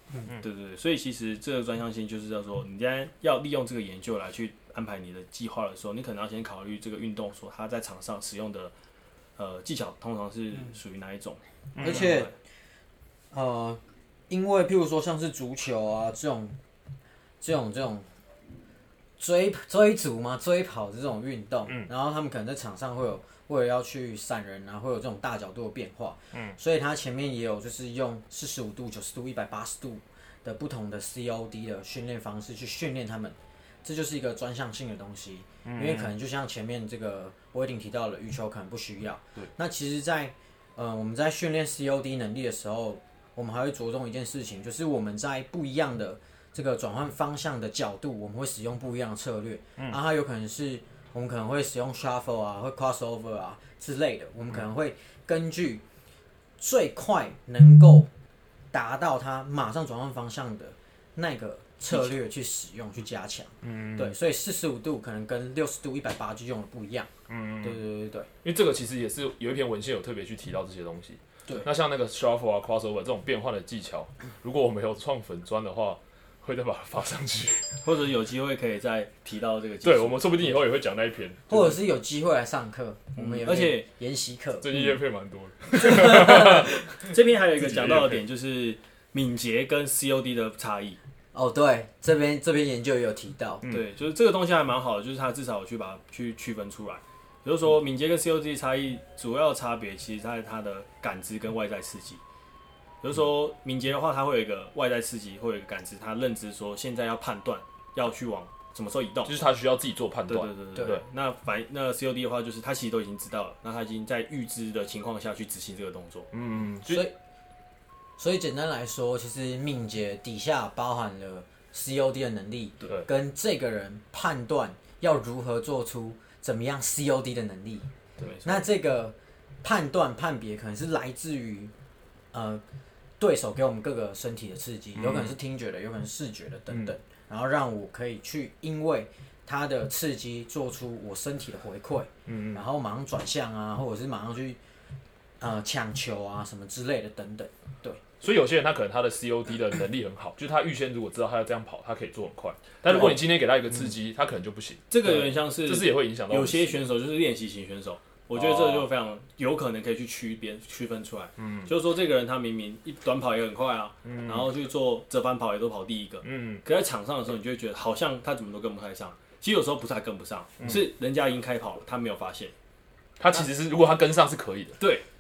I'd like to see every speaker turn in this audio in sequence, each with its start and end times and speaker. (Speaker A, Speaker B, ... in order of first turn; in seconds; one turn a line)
Speaker A: 0.4-8.7
Speaker A: 9.4-12.3
Speaker B: 11.8-12.3
Speaker C: 11.8-12.3
Speaker C: 13.3-16.6
Speaker C: 17.4-18.1
Speaker C: 19.2-55.8
Speaker B: 35.6-36.1
Speaker C: 56.6-58.1
Speaker C: 58.7-67.1
Speaker B: 63.6-64.2
Speaker B: 67.3-67.8
Speaker C: 67.6-68.3
Speaker B: 68.4-77.8
Speaker A: 77.8-80.6
Speaker B: 79.8-81.8
Speaker C: 81.5-84.7
Speaker A: 83.2-83.9
Speaker B: 84.6-88.2
Speaker A: 85.7-91.0
Speaker C: 91.3-93.6
Speaker A: 93.7-102.2
Speaker A: 103.0-109.4
Speaker B: 109.2-111.0
Speaker A: 110.3-116.3
Speaker B: 116.3-117.1
Speaker C: 116.9-117.2
Speaker C: 118.2-127.9
Speaker A: 128.2-128.7
Speaker C: 128.4-131.7
Speaker C: 132.3-132.6
Speaker C: 133.2-144.6
Speaker B: 135.0-135.4
Speaker B: 142.3-142.6
Speaker C: 145.4-148.0
Speaker B: 148.2-156.9
Speaker A: 152.8-153.2
Speaker A: 154.9-172.5
Speaker B: 158.3-158.9
Speaker B: 161.4-161.7
Speaker B: 164.0-164.5
Speaker B: 166.2-166.6
Speaker B: 170.6-170.9
Speaker B: 173.2-174.8
Speaker A: 174.8-175.1